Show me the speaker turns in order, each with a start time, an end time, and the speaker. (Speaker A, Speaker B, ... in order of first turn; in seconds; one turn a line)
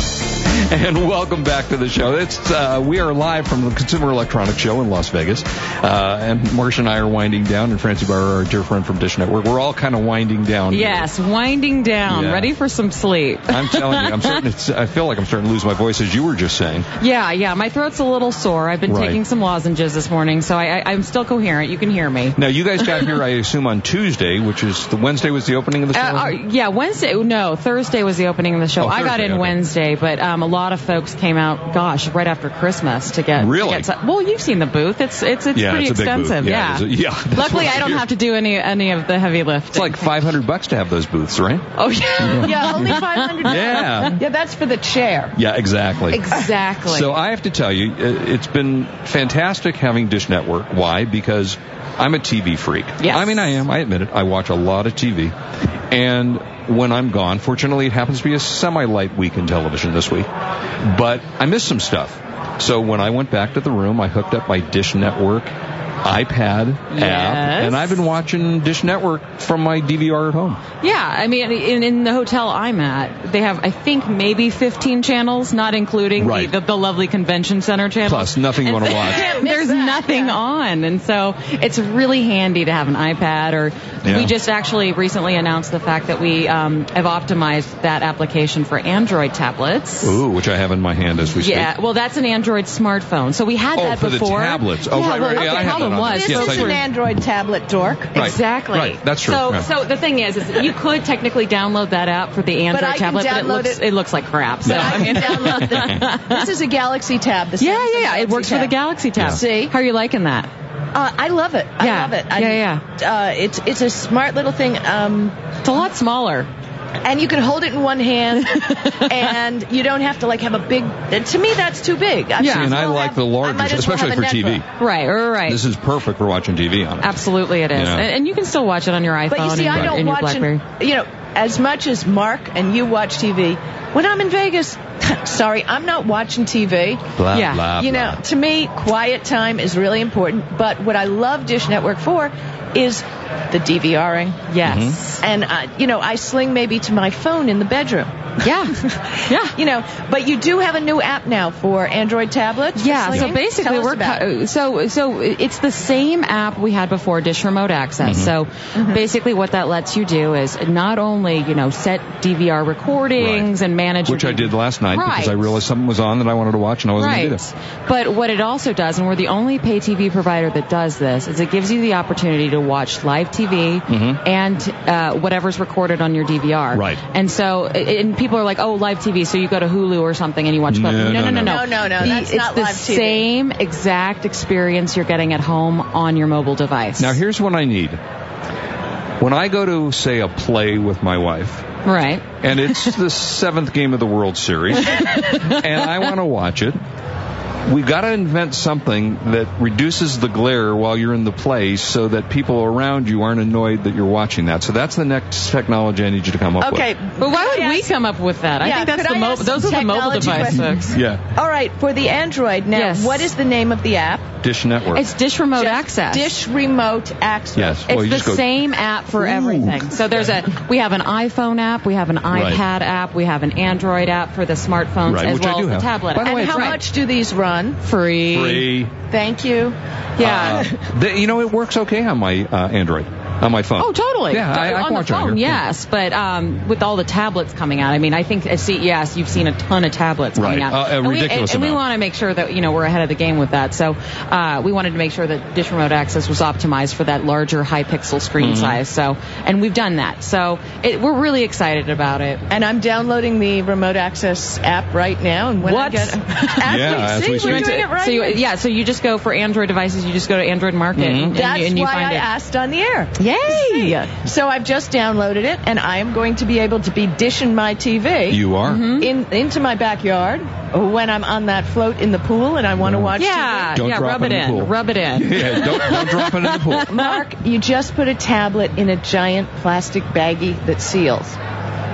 Speaker A: 0.5-11.1
Speaker B: 10.7-14.4
Speaker A: 12.1-12.5
Speaker A: 13.5-16.9
Speaker B: 17.0-22.4
Speaker A: 18.9-19.2
Speaker A: 22.4-26.4
Speaker B: 25.9-40.1
Speaker A: 28.8-29.6
Speaker A: 33.4-33.9
Speaker A: 35.5-38.0
Speaker A: 39.7-41.7
Speaker B: 41.8-44.1
Speaker A: 42.2-44.2
Speaker C: 42.4-45.3
Speaker A: 45.3-46.3
Speaker B: 46.1-47.1
Speaker A: 46.9-55.3
Speaker B: 53.0-53.5
Speaker A: 55.9-60.3
Speaker A: 60.8-65.5
Speaker A: 66.0-70.6
Speaker B: 66.9-68.0
Speaker B: 70.8-90.2
Speaker A: 76.2-76.5
Speaker A: 78.1-79.3
Speaker C: 78.7-80.4
Speaker A: 84.0-84.3
Speaker A: 90.0-91.7
Speaker B: 91.4-96.8
Speaker A: 93.8-96.8
Speaker C: 95.1-98.1
Speaker A: 98.2-99.7
Speaker B: 98.2-106.5
Speaker C: 102.7-103.8
Speaker C: 104.6-108.7
Speaker A: 104.7-105.8
Speaker B: 107.6-110.5
Speaker C: 109.3-109.7
Speaker C: 110.9-115.4
Speaker B: 111.8-112.8
Speaker B: 115.6-116.5
Speaker C: 117.0-124.6
Speaker B: 118.6-119.2
Speaker B: 122.4-122.8
Speaker A: 122.4-124.7
Speaker B: 124.8-125.6
Speaker A: 125.5-128.1
Speaker B: 127.0-130.6
Speaker C: 129.3-137.1
Speaker A: 137.2-138.2
Speaker B: 137.3-137.7
Speaker C: 137.8-144.4
Speaker B: 144.5-145.2
Speaker A: 144.7-145.0
Speaker C: 145.2-148.1
Speaker B: 148.4-149.6
Speaker C: 148.8-154.3
Speaker B: 152.8-165.6
Speaker A: 158.0-158.3
Speaker A: 163.2-163.5
Speaker A: 164.1-167.4
Speaker B: 167.0-187.2
Speaker A: 173.9-174.2
Speaker A: 176.7-177.0
Speaker A: 180.7-182.1
Speaker C: 181.5-183.2
Speaker A: 187.0-188.0
Speaker A: 189.2-191.7
Speaker B: 191.8-192.9
Speaker A: 192.4-196.8
Speaker B: 194.9-195.6
Speaker A: 197.7-206.8
Speaker C: 206.6-207.9
Speaker B: 207.2-211.0
Speaker C: 208.6-214.3
Speaker A: 210.2-211.2
Speaker B: 212.7-213.3
Speaker A: 214.4-215.1
Speaker B: 214.9-216.3
Speaker C: 215.6-217.8
Speaker A: 217.6-218.5
Speaker B: 217.9-226.8
Speaker A: 219.2-220.0
Speaker A: 222.3-222.6
Speaker A: 225.1-226.8
Speaker C: 226.2-227.8
Speaker B: 227.8-228.7
Speaker A: 228.3-228.9
Speaker C: 229.1-229.8
Speaker B: 230.2-230.7
Speaker A: 230.2-235.6
Speaker B: 233.8-252.4
Speaker A: 240.3-241.8
Speaker A: 248.4-248.8
Speaker C: 252.5-258.4
Speaker B: 255.6-262.3
Speaker A: 256.6-257.8
Speaker A: 260.9-261.3
Speaker C: 261.3-268.4
Speaker B: 263.2-264.1
Speaker A: 268.3-268.9
Speaker B: 268.6-269.1
Speaker C: 269.0-273.7
Speaker A: 272.8-273.1
Speaker B: 273.2-277.2
Speaker A: 273.7-276.9
Speaker C: 276.9-281.4